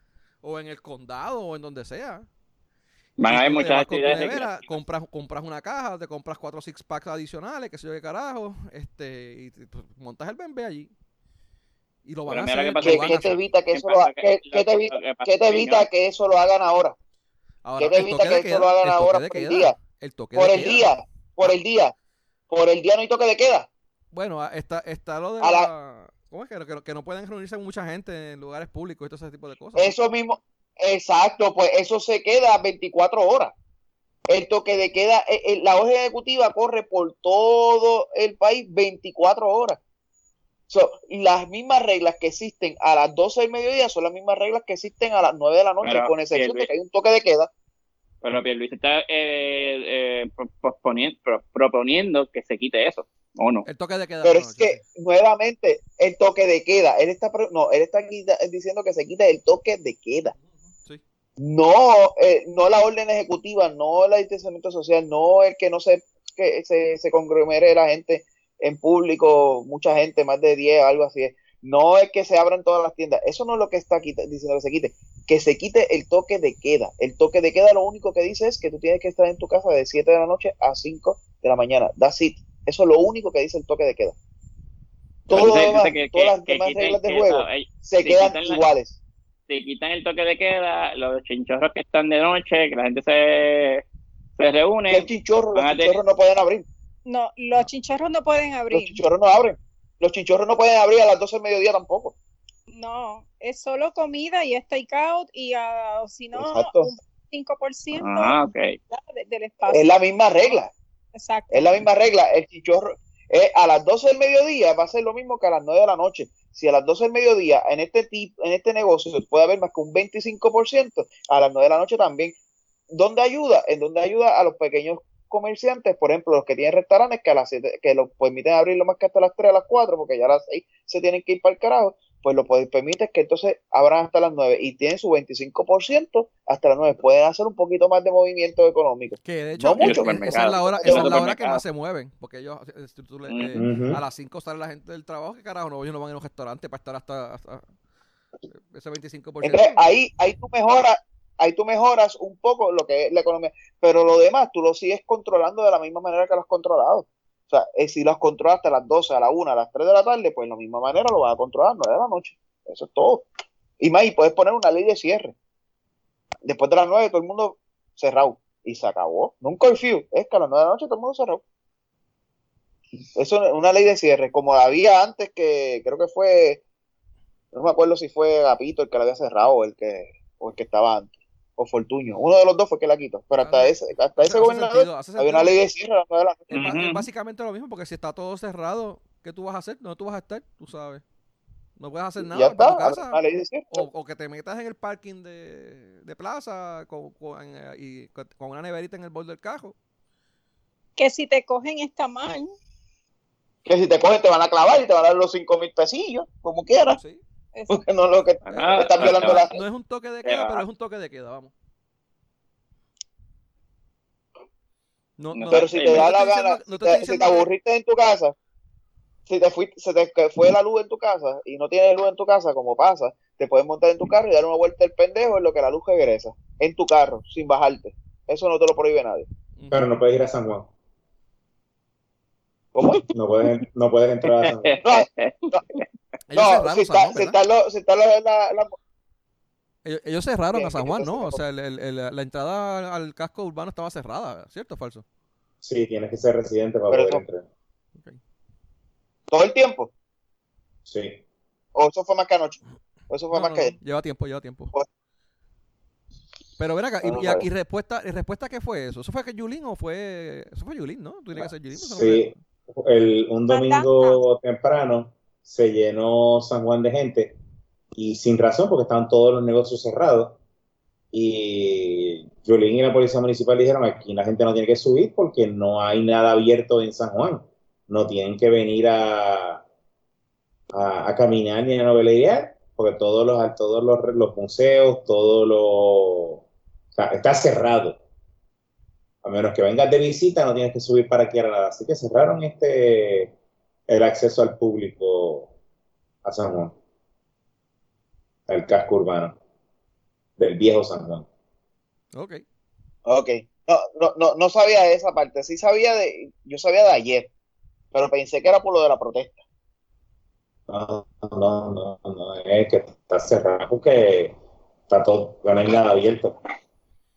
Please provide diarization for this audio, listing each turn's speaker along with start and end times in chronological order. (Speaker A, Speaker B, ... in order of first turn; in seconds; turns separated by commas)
Speaker A: 0.4-2.3, Speaker B: 3.2-4.6, Speaker A: 3.3-10.9, Speaker A: 12.1-13.4, Speaker B: 12.3-13.2, Speaker C: 12.8-16.9, Speaker B: 13.7-15.9, Speaker A: 17.6-20.9, Speaker C: 17.8-19.7, Speaker C: 20.4-21.9, Speaker C: 22.5-23.7, Speaker A: 24.1-29.9, Speaker C: 25.4-25.7, Speaker C: 29.8-33.5, Speaker C: 34.3-39.8, Speaker C: 40.7-47.5, Speaker B: 45.8-46.7, Speaker B: 48.2-53.7, Speaker A: 53.7-54.8, Speaker C: 54.2-60.4, Speaker C: 61.4-84.2, Speaker C: 85.3-89.0, Speaker B: 85.3-88.6, Speaker B: 89.5-93.8, Speaker B: 94.4-96.0, Speaker C: 94.9-96.7, Speaker D: 97.1-99.0, Speaker C: 98.7-102.1, Speaker D: 102.7-108.4, Speaker C: 106.4-106.9, Speaker B: 108.0-108.8, Speaker D: 108.9-110.6, Speaker C: 109.7-110.7, Speaker D: 111.2-111.8, Speaker C: 111.5-122.3, Speaker C: 122.9-141.2, Speaker A: 139.2-147.7, Speaker B: 139.8-141.6, Speaker B: 143.3-143.5, Speaker E: 143.5-144.0, Speaker A: 148.6-149.8, Speaker C: 149.4-163.3, Speaker C: 163.8-165.3, Speaker C: 166.4-171.4, Speaker C: 173.2-176.6, Speaker C: 177.5-186.5, Speaker A: 183.4-185.6, Speaker A: 186.5-191.0, Speaker B: 186.5-187.1, Speaker A: 191.8-193.2, Speaker C: 192.2-193.8, Speaker A: 193.7-199.8, Speaker D: 201.0-202.5, Speaker C: 203.7-207.0, Speaker A: 206.9-207.2, Speaker D: 207.5-207.8, Speaker C: 207.7-209.6, Speaker B: 208.5-209.6, Speaker A: 208.5-211.5, Speaker B: 210.2-210.6, Speaker A: 215.2-217.5, Speaker B: 215.4-216.1, Speaker C: 215.5-218.3, Speaker C: 219.3-229.3, Speaker A: 229.6-229.8, Speaker E: 229.7-230.7, Speaker C: 232.7-233.1, Speaker E: 233.1-234.8, Speaker B: 234.2-235.8, Speaker C: 234.8-235.7, Speaker A: 236.3-237.4, Speaker C: 236.3-238.8, Speaker A: 239.8-245.1, Speaker C: 240.5-241.4, Speaker E: 245.6-247.5, Speaker C: 246.9-247.2, Speaker C: 249.3-249.9, Speaker E: 250.9-251.2, Speaker C: 251.8-252.6, Speaker C: 253.1-253.8, Speaker A: 253.3-254.7, Speaker A: 256.6-262.4, Speaker C: 257.0-257.4, Speaker E: 261.7-267.4, Speaker D: 263.5-264.2, Speaker E: 267.9-270.4, Speaker E: 271.1-279.6, Speaker E: 280.7-286.4, Speaker E: 287.0-288.0, Speaker E: 289.2-293.3, Speaker E: 293.9-295.5, Speaker E: 296.2-296.8, Speaker E: 298.5-299.4, Speaker E: 300.4-301.3, Speaker A: 302.1-302.4, Speaker C: 303.1-307.3, Speaker C: 307.9-309.4, Speaker E: 310.7-314.4, Speaker E: 314.9-316.4